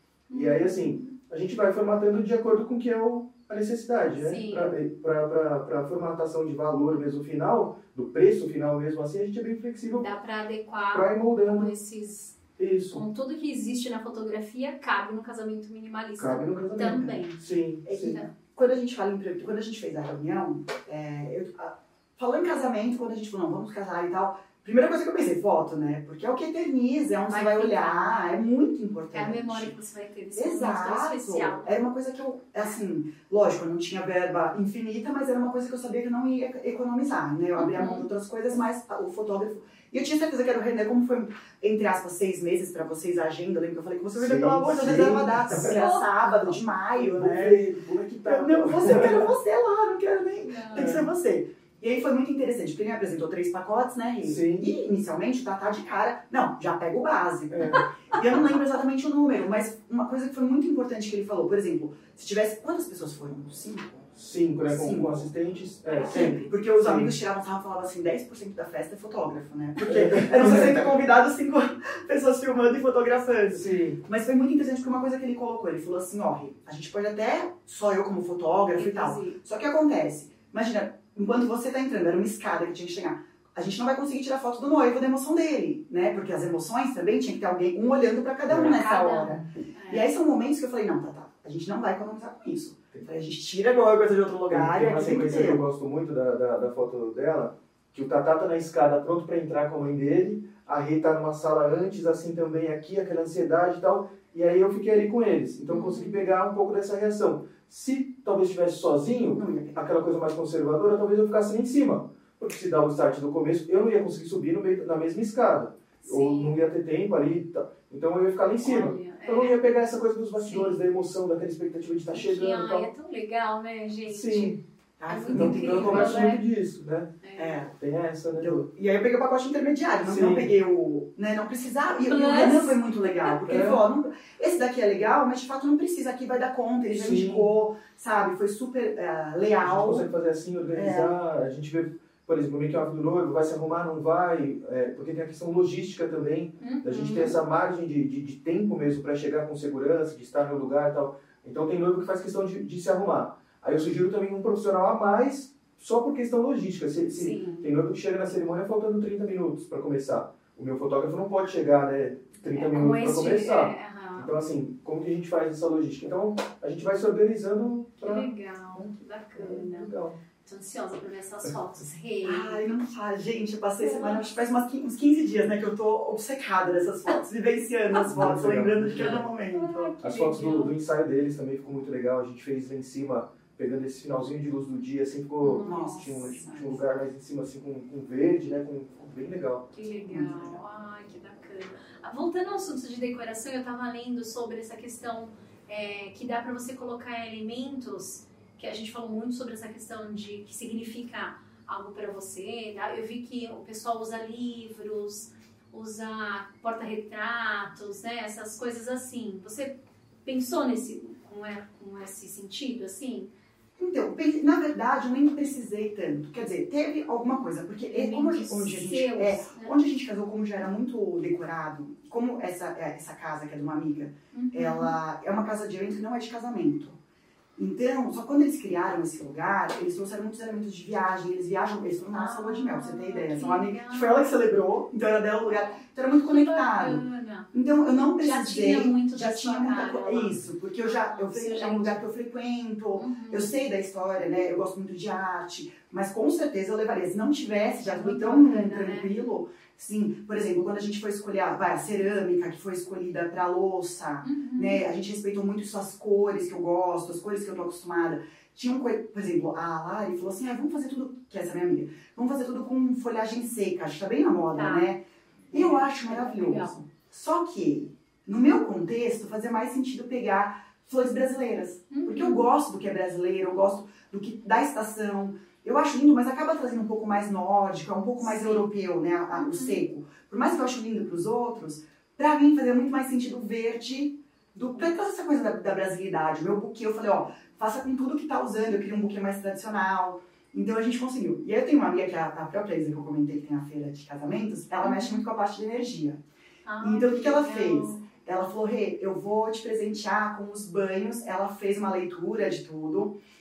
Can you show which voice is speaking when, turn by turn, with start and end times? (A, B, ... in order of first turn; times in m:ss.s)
0:00.3-0:01.1 A
0:00.3-0:10.1 B
0:04.2-0:04.7 A
0:10.0-0:12.4 A
0:10.9-0:11.7 B
0:12.6-0:13.0 B
0:12.9-0:17.4 A
0:16.2-0:18.2 B
0:17.9-0:29.8 C
0:18.0-0:18.3 A
0:27.3-0:28.4 A
0:29.1-0:31.7 A
0:30.4-0:47.6 C
0:37.6-0:38.0 A
0:44.2-0:45.7 B
0:45.5-0:46.6 A
0:47.0-0:49.3 B
0:48.2-1:04.1 C
0:50.4-0:51.0 A
0:50.7-0:51.0 B
0:54.2-0:54.6 B
0:57.5-0:57.8 B
1:04.1-1:07.2 B
1:04.6-1:05.3 C
1:05.9-1:06.5 A
1:06.1-1:35.6 C
1:09.8-1:10.8 B
1:13.5-1:14.0 B
1:18.8-1:19.4 A
1:28.4-1:28.8 B
1:28.6-1:30.1 A
1:34.5-2:02.9 B
1:45.7-1:46.2 A
1:49.3-1:50.0 C
1:56.0-1:56.6 A
1:58.6-1:59.6 A
2:00.4-2:00.8 A
2:02.1-2:06.4 A
2:04.1-2:04.6 B
2:05.0-2:06.3 C
2:05.3-2:07.2 B
2:07.2-2:07.6 A
2:07.4-2:07.8 C
2:07.8-2:08.6 B
2:08.4-2:20.1 C
2:10.0-2:10.5 B
2:12.1-2:13.4 A
2:13.5-2:13.8 B
2:16.9-2:17.5 B
2:19.6-2:50.2 B
2:20.8-2:21.1 C
2:26.6-2:27.4 A
2:37.2-2:37.7 A
2:42.5-2:44.3 A
2:48.0-2:49.9 A
2:50.4-2:52.6 A
2:52.2-2:59.9 C
2:53.8-2:54.3 A
2:58.0-2:59.3 B
2:59.5-3:00.7 A
3:00.0-3:09.7 B
3:05.4-3:06.4 A
3:05.6-3:06.9 C
3:09.7-3:33.3 A
3:10.1-3:10.6 C
3:33.8-3:47.0 C
3:37.8-3:39.7 A
3:44.3-3:45.0 A
3:47.6-4:56.2 C
3:52.1-3:54.4 A
3:55.5-3:57.5 A
3:58.2-4:02.0 A
4:03.0-4:03.5 A
4:07.8-4:09.1 A
4:14.2-4:14.8 A
4:24.6-4:24.9 A
4:25.5-4:26.7 A
4:31.9-4:32.4 A
4:38.2-4:38.6 A
4:39.4-4:39.8 A
4:54.8-4:55.2 A
4:56.7-4:58.0 A
4:56.8-5:03.2 C